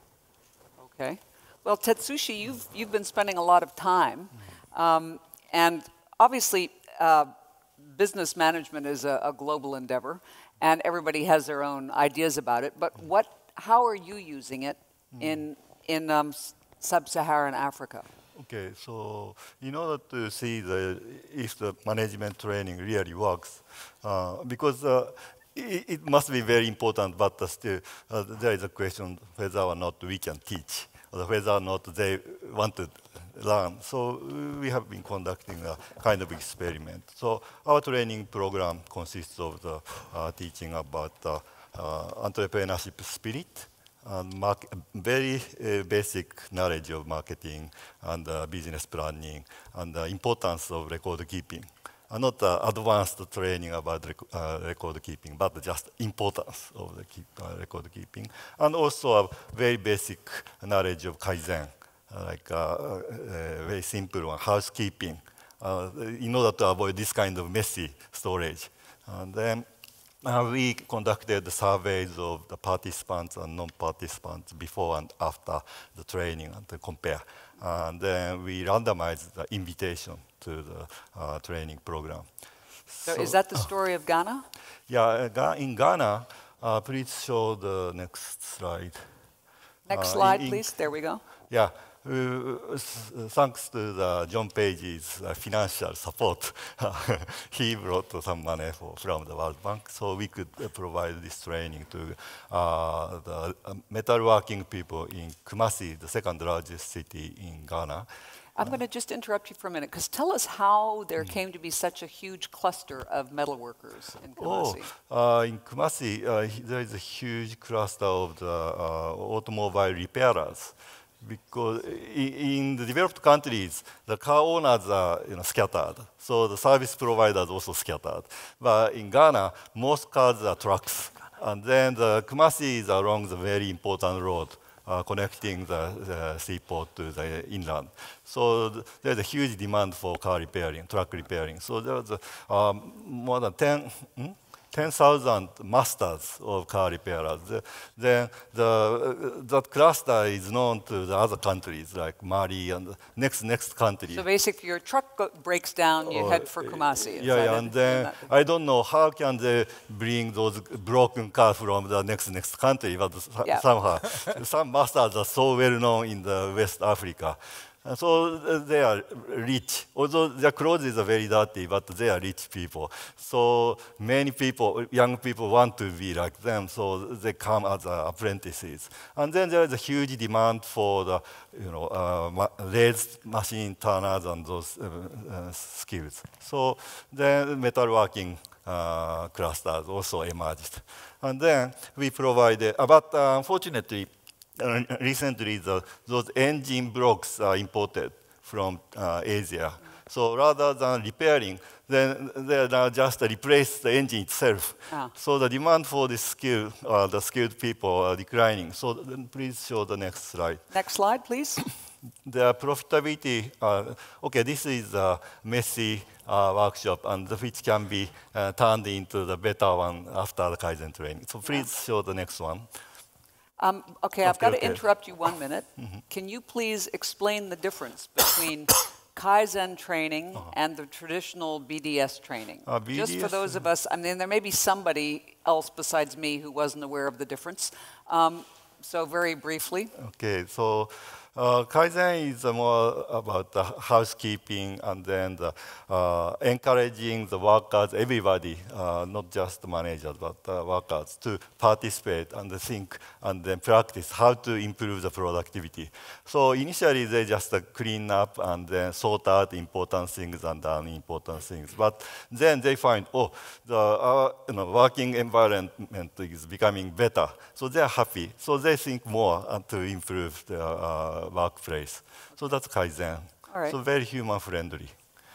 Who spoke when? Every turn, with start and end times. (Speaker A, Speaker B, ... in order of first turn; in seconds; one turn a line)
Speaker A: 0.8-18.1
Speaker B: 15.1-15.4
Speaker B: 18.4-69.7
Speaker B: 70.2-82.2
Speaker B: 82.9-83.7
Speaker A: 83.0-84.4
Speaker B: 84.9-89.0
Speaker A: 89.9-91.2
Speaker B: 89.9-90.7
Speaker B: 91.5-108.1
Speaker A: 108.5-114.9
Speaker B: 114.4-154.2
Speaker A: 154.1-158.3
Speaker B: 156.1-210.6
Speaker A: 210.7-211.6
Speaker B: 212.2-222.7
Speaker A: 223.6-239.9
Speaker B: 224.2-224.8
Speaker B: 232.7-233.6
Speaker B: 239.9-274.9
Speaker A: 273.5-273.8